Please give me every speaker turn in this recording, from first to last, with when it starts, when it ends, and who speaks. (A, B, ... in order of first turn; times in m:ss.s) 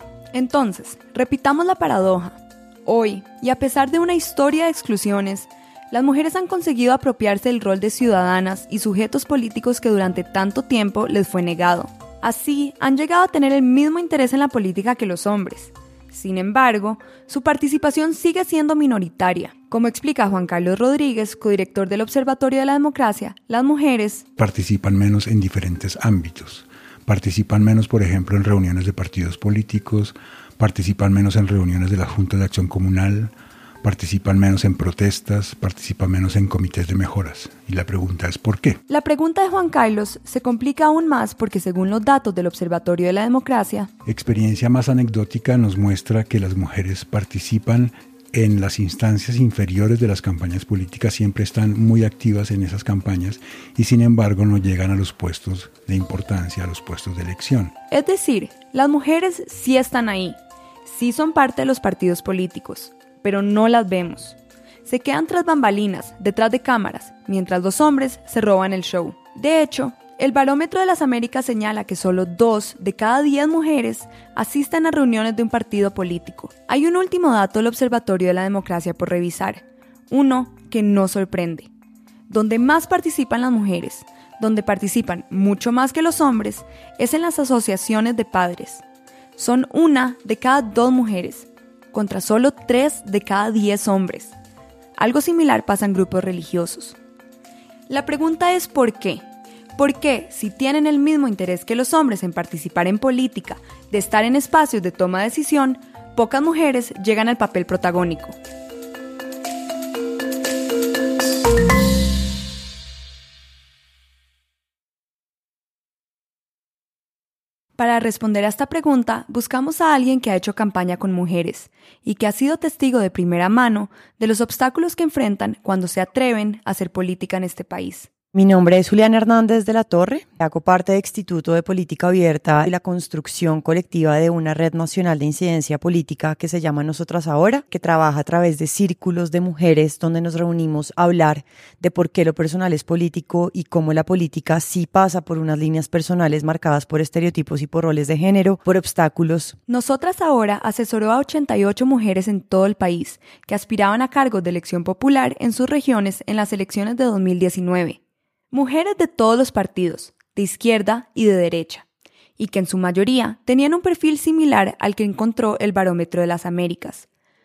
0:00.3-0:24.2 A
0:24.4-0:38.8 B
0:38.9-0:43.9 A
0:44.0-0:57.7 B
0:57.9-1:21.7 A
1:22.3-1:28.8 A
1:29.4-1:34.3 A
1:35.0-1:37.0 A
1:37.9-1:39.2 A
1:39.8-1:48.4 A
1:57.8-2:08.1 A
2:08.3-2:29.6 C
2:29.7-2:38.0 A
2:38.5-2:41.8 A
2:42.4-2:47.1 A